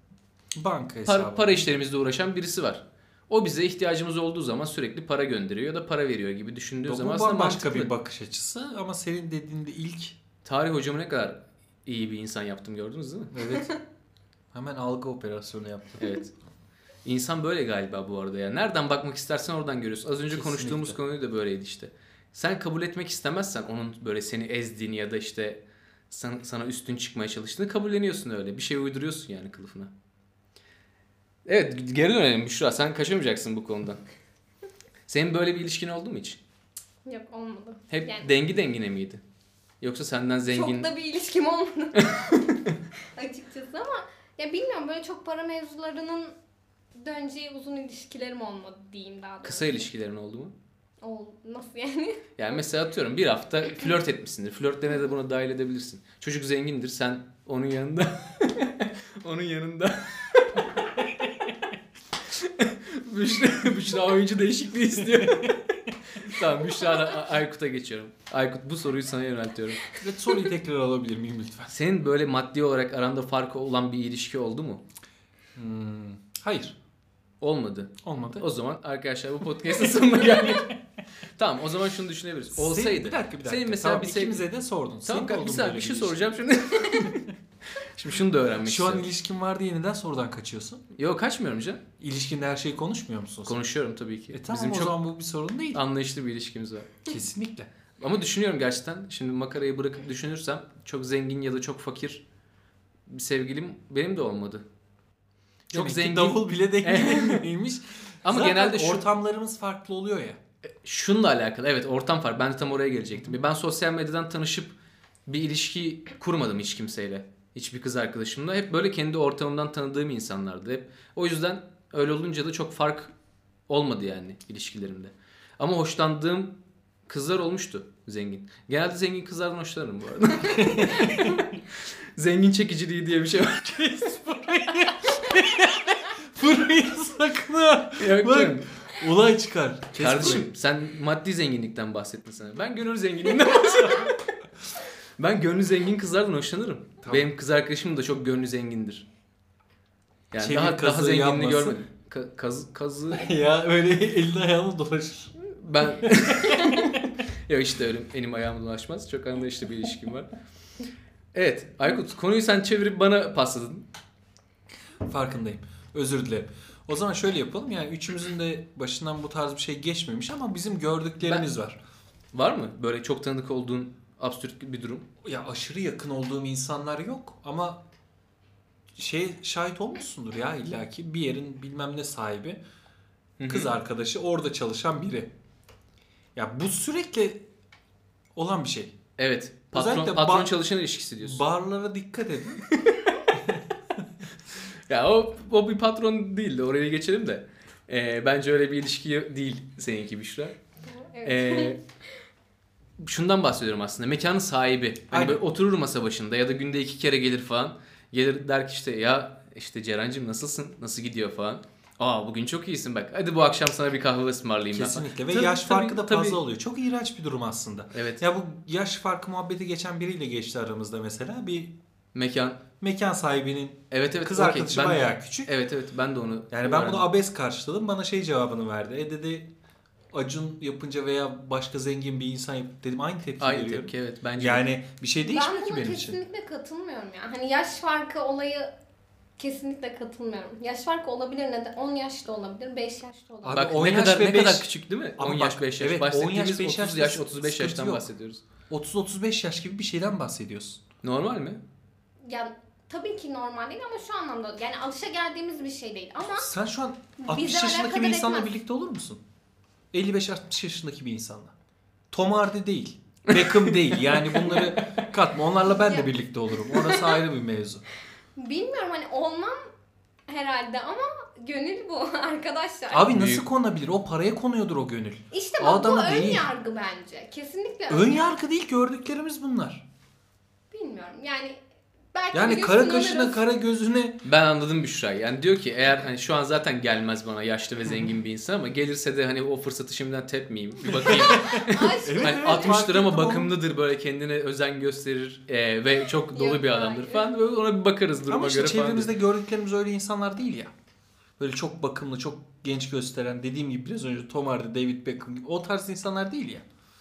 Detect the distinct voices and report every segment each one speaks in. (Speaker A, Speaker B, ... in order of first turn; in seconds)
Speaker A: 0.6-1.7, 6.8-10.2, 13.3-13.7, 14.5-16.1, 20.3-21.0, 70.0-71.7, 75.5-76.8, 78.0-78.4, 82.5-86.2, 88.6-90.8, 92.0-93.6, 94.3-95.8, 97.0-97.7, 105.7-110.4, 130.8-131.1, 133.7-140.5, 147.0-147.3, 150.4-151.8, 153.1-155.3, 156.0-156.5, 165.0-171.8, 175.2-177.8, 178.9-182.6, 183.5-185.3, 186.3-187.5, 188.3-189.0, 189.7-190.6, 191.2-192.7, 205.1-205.4, 214.7-221.8, 222.8-225.5, 226.5-229.5, 230.1-236.2, 243.4-248.1, 248.7-250.8, 256.4-259.2, 259.9-261.5, 262.1-267.9, 272.9-276.5, 277.9-279.8, 282.3-284.2, 287.9-288.1, 290.9-293.5, 298.3-300.7, 301.4-306.6
Speaker B: 1.1-7.9, 10.4-13.3, 16.0-16.3, 17.0-29.9, 31.5-34.0, 35.1-36.4, 37.9-39.2, 39.8-40.9, 42.0-42.7, 49.4-50.5, 52.4-60.9, 62.3-70.0, 71.7-74.8, 77.4-80.8, 81.4-84.5, 85.0-89.1, 91.0-91.8, 93.5-95.0, 95.7-97.1, 98.0-102.2, 103.1-104.7, 105.7-107.5, 108.2-109.1, 110.8-114.8, 115.3-123.1, 123.7-134.0, 138.0-138.7, 139.9-144.3, 145.2-149.1, 150.3-153.3, 155.4-160.3, 161.3-163.8, 172.3-175.1, 183.4-183.7, 189.2-191.4, 192.7-193.2, 194.9-200.6, 201.2-201.8, 203.0-216.4, 217.9-218.2, 222.1-222.6, 223.9-227.1, 233.4-234.7, 243.5-248.4, 251.0-251.6, 263.3-265.1, 273.1-273.4, 284.2-299.1
Speaker C: 37.1-38.3, 40.5-42.6, 43.1-46.4, 47.0-49.9, 51.0-52.3, 200.8-201.8, 235.2-238.7, 239.4-243.6, 252.2-256.5, 257.2-258.5, 268.4-269.7, 270.3-273.1, 275.3-278.3, 280.7-281.6, 282.1-283.4, 291.1-292.8, 296.3-297.3